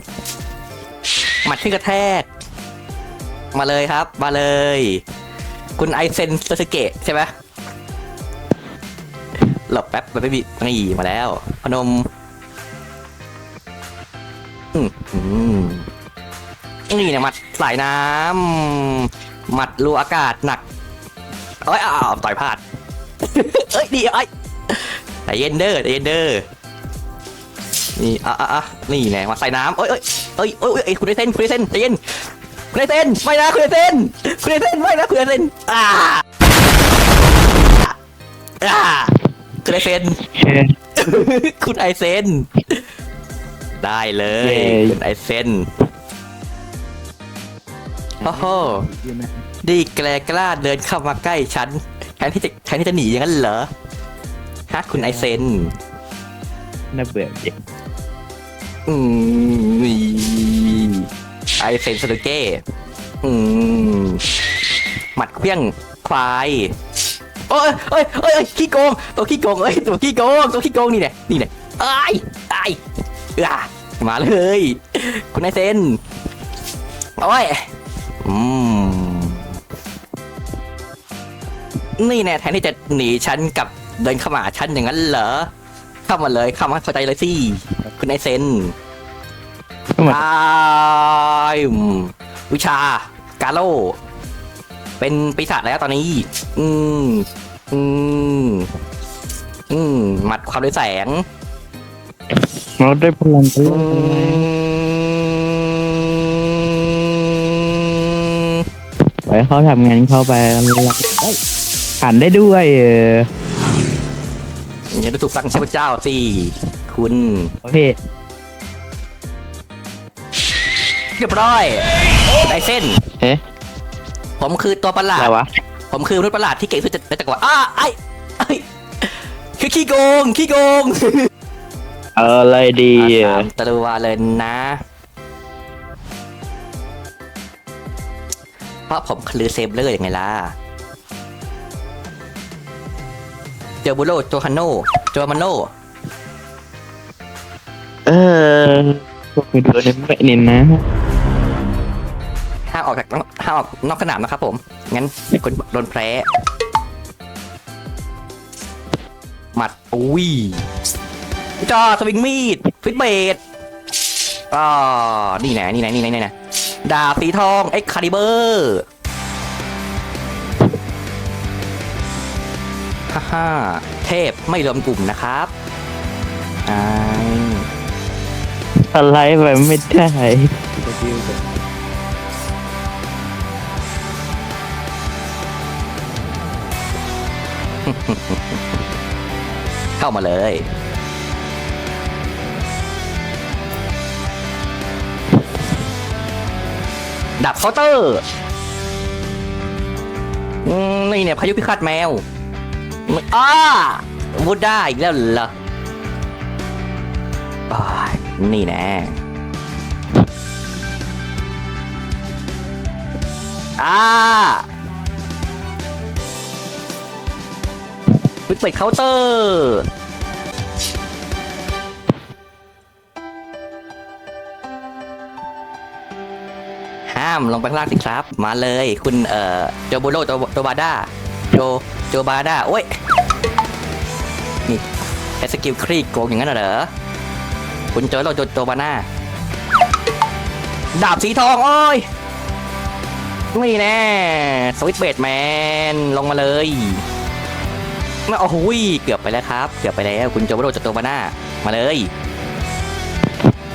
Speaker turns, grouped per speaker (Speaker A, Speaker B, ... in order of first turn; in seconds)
Speaker A: 1.4-2.3, 3.5-5.0, 5.8-7.3, 9.7-12.1, 14.7-15.9, 16.9-20.6, 21.6-22.6, 23.2-26.4, 28.0-36.2, 38.6-40.2, 41.0-42.8, 43.8-45.7, 48.2-48.9, 49.6-53.7, 54.7-55.7, 58.9-61.1, 61.6-62.6, 63.2-64.2, 65.2-66.7, 67.5-72.8, 73.3-76.0, 77.2-77.7, 78.2-79.5, 82.0-85.5, 86.1-88.7, 90.0-94.0, 95.0-98.7, 99.7-101.2, 103.6-108.7, 114.9-117.5, 121.2-121.9, 122.4-123.0, 124.4-125.3, 125.9-131.3, 132.9-134.8, 138.9-140.5, 143.8-145.7, 152.7-156.3, 159.5-160.6, 161.6-163.4, 164.5-168.8, 173.1-175.5, 176.7-177.7, 187.8-188.7, 190.0-190.7, 197.4-198.2, 200.6-202.2, 203.1-205.5, 207.7-209.2, 213.8-214.7, 218.5-219.8, 227.1-232.9, 235.4-236.9, 237.9-239.1, 240.9-242.0, 243.5-247.0, 248.3-252.1
Speaker B: 40.3-40.7, 44.4-45.0, 48.2-49.4, 54.9-55.3, 56.9-57.5, 90.0-90.2, 102.8-104.4, 109.3-111.4, 112.0-113.3, 117.6-118.0, 125.2-125.5, 132.2-133.5, 148.1-150.8, 178.9-181.4